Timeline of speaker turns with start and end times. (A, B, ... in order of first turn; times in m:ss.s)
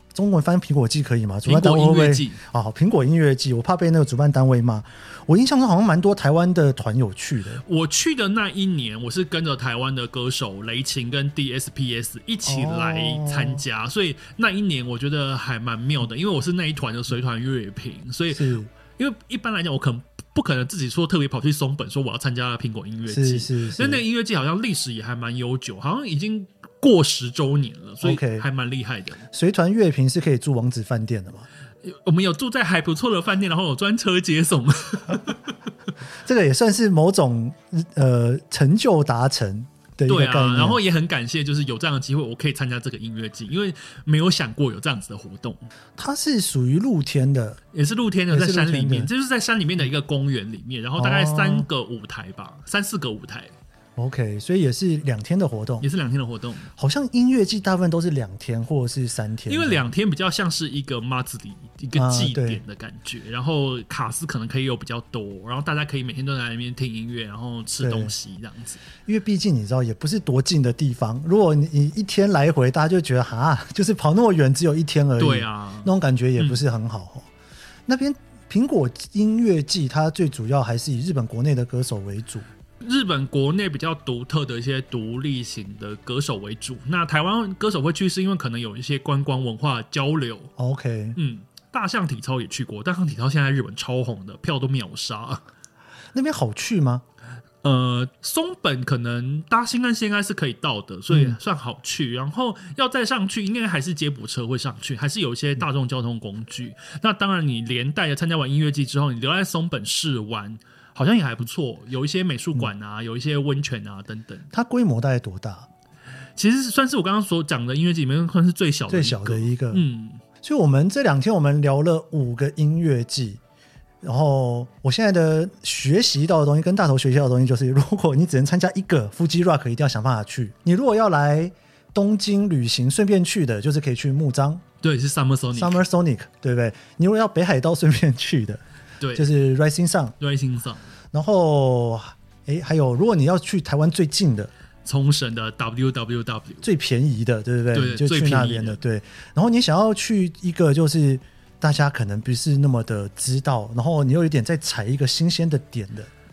0:00.1-0:07.6 A
0:01.4-0:02.4 B
0:07.6-0:29.2 B
0:12.5-0:13.6 A
0:18.3-0:18.7 A
0:23.1-0:24.0 A
0:28.0-0:28.4 A
0:29.3-0:31.5 A
0:31.8-0:35.6 B
0:36.2-0:40.8 A
0:40.1-0:45.6 B
0:46.0-0:47.6 A
0:47.7-0:53.5 B
0:48.3-0:49.1 A
0:51.0-0:51.7 A
0:54.0-0:55.9 A
0:55.8-0:56.7 B
0:56.8-0:59.9 A
0:59.5-1:08.8 B
1:02.0-1:02.6 A
1:07.8-1:08.1 A
1:09.0-1:17.3 A
1:15.2-1:16.6 B
1:17.9-1:22.4 A
1:22.8-1:30.5 B
1:30.6-1:31.2 A
1:31.2-1:35.4 B
1:36.1-1:37.0 A
1:37.6-1:54.5 B
1:41.1-1:41.4 A
1:54.5-1:55.7 A
1:56.4-2:00.2 B
1:58.9-1:59.8 A
2:00.4-2:03.4 A
2:04.0-2:14.6 A
2:14.8-2:15.8 B
2:15.6-2:18.6 A
2:19.0-2:19.3 B
2:19.2-2:20.2 A
2:20.2-2:20.9 B
2:21.1-2:24.5 A
2:24.8-2:26.6 B
2:26.6-2:36.1 A
2:27.7-2:28.8 B